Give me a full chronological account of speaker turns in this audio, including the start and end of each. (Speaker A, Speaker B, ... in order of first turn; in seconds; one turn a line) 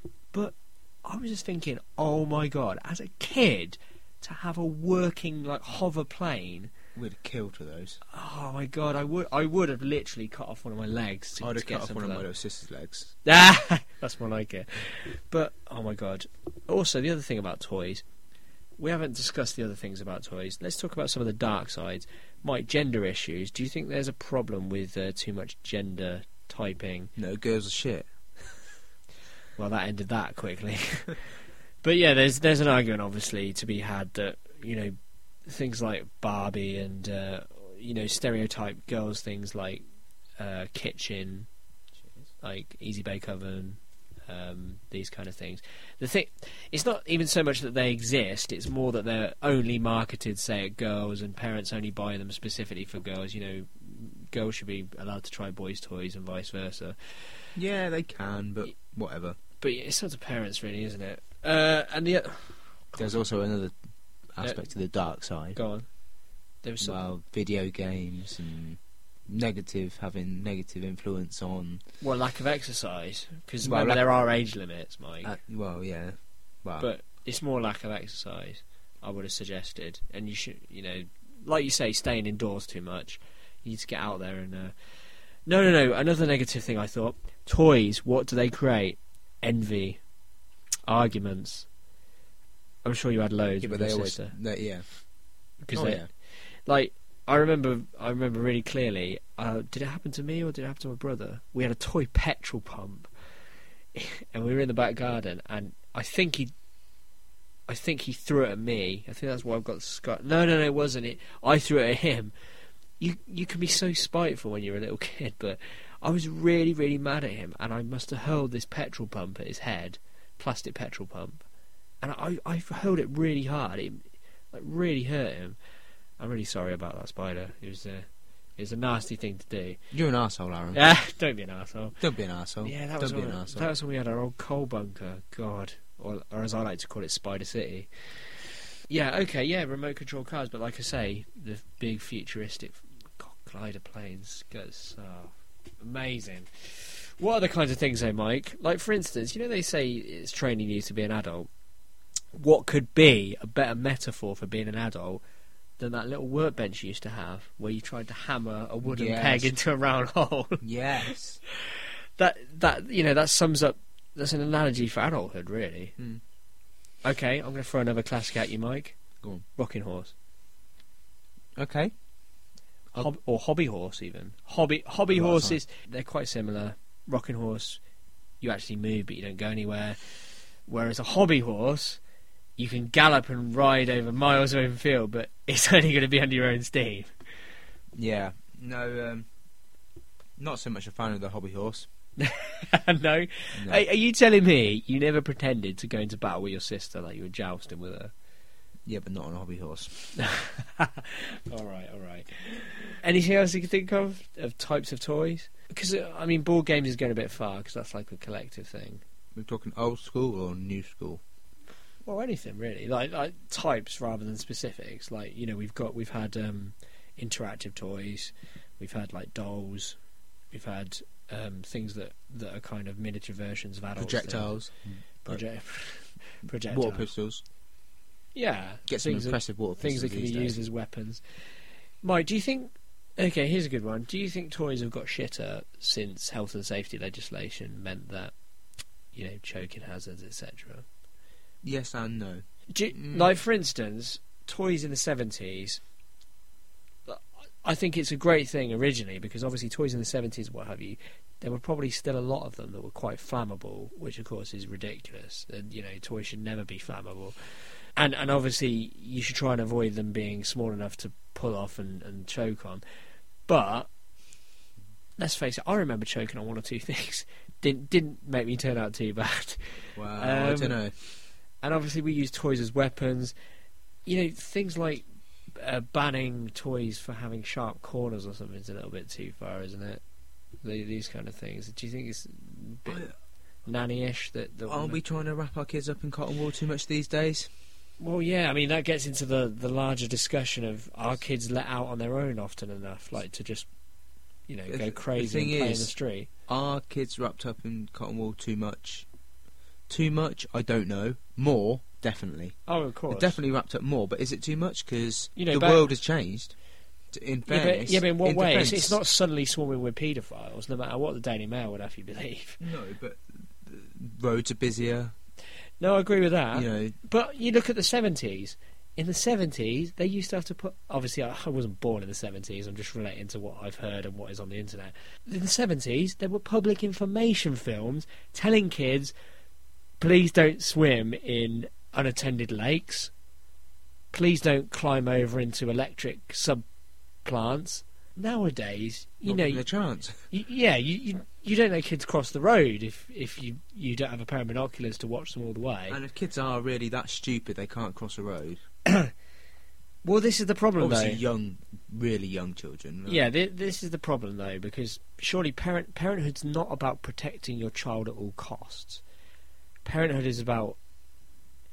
Speaker A: 0.3-6.7
Speaker B: 6.9-8.0
Speaker A: 8.1-12.2
Speaker B: 11.4-13.1
Speaker A: 13.2-18.0
Speaker A: 18.8-27.1
Speaker B: 27.2-28.1
Speaker A: 29.6-31.2
Speaker A: 31.8-34.9
Speaker A: 35.5-39.8
Speaker A: 40.4-41.5
Speaker A: 42.4-57.0
Speaker B: 57.5-59.4
Speaker A: 59.6-62.9
Speaker B: 63.0-63.7
Speaker B: 64.3-65.6
Speaker A: 65.5-65.8
Speaker A: 66.6-67.0
Speaker B: 66.8-71.8
Speaker A: 72.0-75.4
Speaker B: 73.6-74.1
Speaker B: 75.2-76.9
Speaker A: 76.8-84.7
Speaker A: 85.5-90.0
Speaker A: 90.9-91.7
Speaker A: 92.8-94.3
Speaker B: 93.6-94.8
Speaker A: 95.6-96.0
Speaker B: 95.7-96.1
Speaker A: 96.7-103.1
Speaker A: 103.9-106.5
Speaker A: 107.7-112.3
Speaker A: 113.0-121.4
Speaker A: 122.0-125.6
Speaker A: 126.2-128.1
Speaker A: 128.6-129.8
Speaker B: 129.9-130.8
Speaker A: 130.7-132.0
Speaker B: 132.0-133.7
Speaker A: 132.6-137.9
Speaker A: 138.9-151.5
Speaker A: 152.3-155.2
Speaker A: 155.8-165.9
Speaker B: 158.8-159.5
Speaker B: 160.6-161.4
Speaker A: 167.0-168.9
Speaker A: 169.6-170.1
Speaker B: 171.6-171.9
Speaker A: 172.9-177.8
Speaker B: 175.1-175.6
Speaker A: 178.4-180.0
Speaker A: 180.7-182.0
Speaker A: 182.6-187.1
Speaker B: 188.0-189.3
Speaker B: 190.4-191.9
Speaker A: 192.2-198.1
Speaker B: 193.5-193.8
Speaker B: 198.9-199.9
Speaker A: 200.1-209.0
Speaker B: 209.3-211.2
Speaker A: 212.1-220.0
Speaker A: 220.5-224.5
Speaker B: 224.0-225.4
Speaker A: 225.2-227.1
Speaker B: 226.7-227.4
Speaker A: 228.3-231.2
Speaker B: 228.9-230.6
Speaker A: 232.0-238.3
Speaker A: 239.1-240.8
Speaker B: 241.6-243.3
Speaker A: 242.7-245.8
Speaker A: 247.1-257.4
Speaker A: 258.0-262.8
Speaker A: 263.5-263.9
Speaker A: 265.2-270.8
Speaker B: 269.9-270.9
Speaker A: 271.6-273.3
Speaker A: 274.1-280.0
Speaker A: 280.6-283.1
Speaker A: 283.6-285.0
Speaker B: 284.7-287.5
Speaker A: 288.0-293.7
Speaker A: 294.5-296.3
Speaker B: 294.7-295.9
Speaker B: 296.5-299.1
Speaker B: 299.9-302.6
Speaker A: 302.7-303.4
Speaker B: 303.1-306.5
Speaker A: 305.4-305.9
Speaker B: 307.1-309.0
Speaker A: 307.5-312.6
Speaker B: 312.6-315.1
Speaker A: 315.8-329.1
Speaker B: 316.5-316.9
Speaker A: 330.0-333.1
Speaker A: 334.1-336.6
Speaker A: 337.2-339.6
Speaker B: 339.2-340.2
Speaker A: 340.3-346.0
Speaker B: 345.9-348.6
Speaker A: 348.9-349.1
Speaker A: 350.0-351.2
Speaker B: 350.8-353.2
Speaker A: 353.1-359.0
Speaker A: 359.8-360.8